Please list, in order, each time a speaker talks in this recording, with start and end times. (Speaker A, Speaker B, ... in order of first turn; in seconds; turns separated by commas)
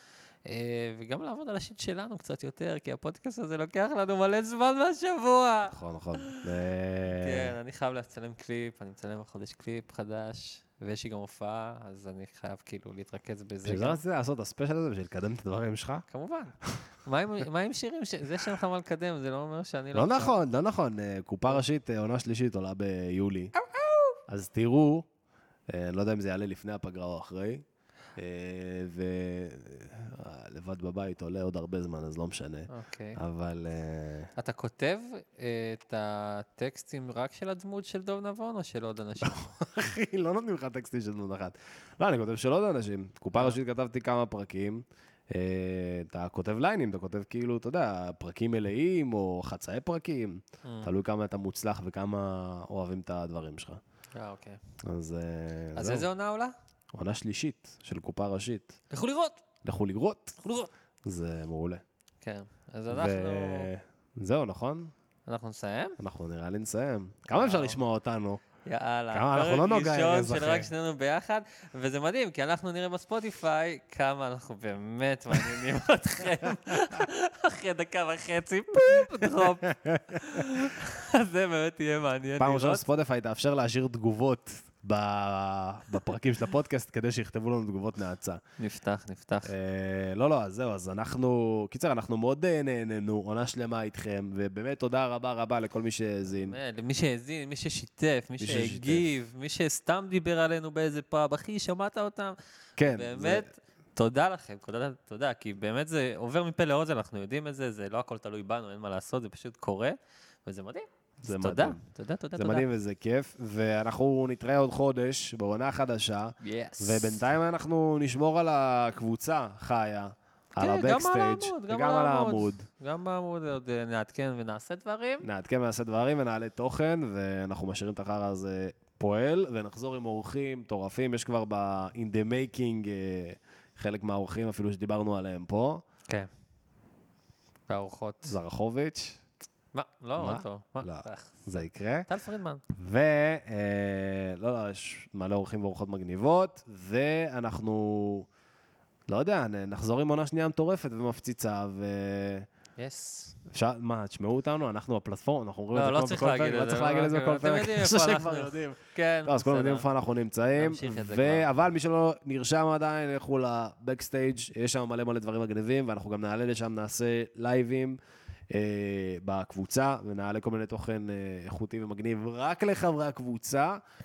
Speaker A: 0.5-6.4, Speaker B: 5.7-7.5, Speaker A: 7.2-14.0, Speaker B: 13.7-16.1, Speaker A: 16.1-20.4, Speaker B: 19.9-23.5, Speaker A: 23.6-24.2, Speaker B: 24.3-25.1, Speaker B: 25.7-27.6, Speaker B: 28.2-34.3, Speaker A: 32.7-33.2, Speaker A: 34.4-39.4, Speaker B: 39.2-53.8, Speaker A: 50.6-50.9, Speaker A: 54.2-54.6, Speaker B: 54.8-56.1, Speaker A: 55.8-56.5, Speaker B: 56.9-58.8, Speaker A: 58.9-59.4, Speaker B: 59.6-60.4, Speaker A: 60.4-60.7, Speaker B: 61.0-61.8, Speaker A: 62.2-63.7, Speaker B: 62.9-64.9, Speaker A: 65.3-66.0, Speaker B: 66.0-68.4, Speaker A: 67.3-67.8, Speaker A: 68.7-82.8, Speaker B: 69.1-70.7, Speaker B: 78.9-80.7, Speaker B: 82.4-88.4, Speaker A: 88.6-89.5, Speaker B: 89.5-96.6, Speaker A: 96.3-112.7, Speaker B: 98.4-99.1, Speaker B: 102.8-103.5, Speaker B: 111.2-111.8, Speaker B: 112.4-122.7, Speaker A: 116.4-117.2, Speaker A: 120.6-125.3, Speaker B: 125.2-135.8, Speaker A: 137.7-138.3, Speaker B: 138.3-139.2, Speaker A: 139.7-142.6, Speaker B: 140.2-142.1, Speaker B: 142.7-148.3, Speaker B: 149.1-152.5, Speaker A: 152.8-153.4, Speaker B: 153.5-168.0, Speaker A: 155.7-159.9, Speaker A: 160.5-161.5, Speaker B: 168.5-173.8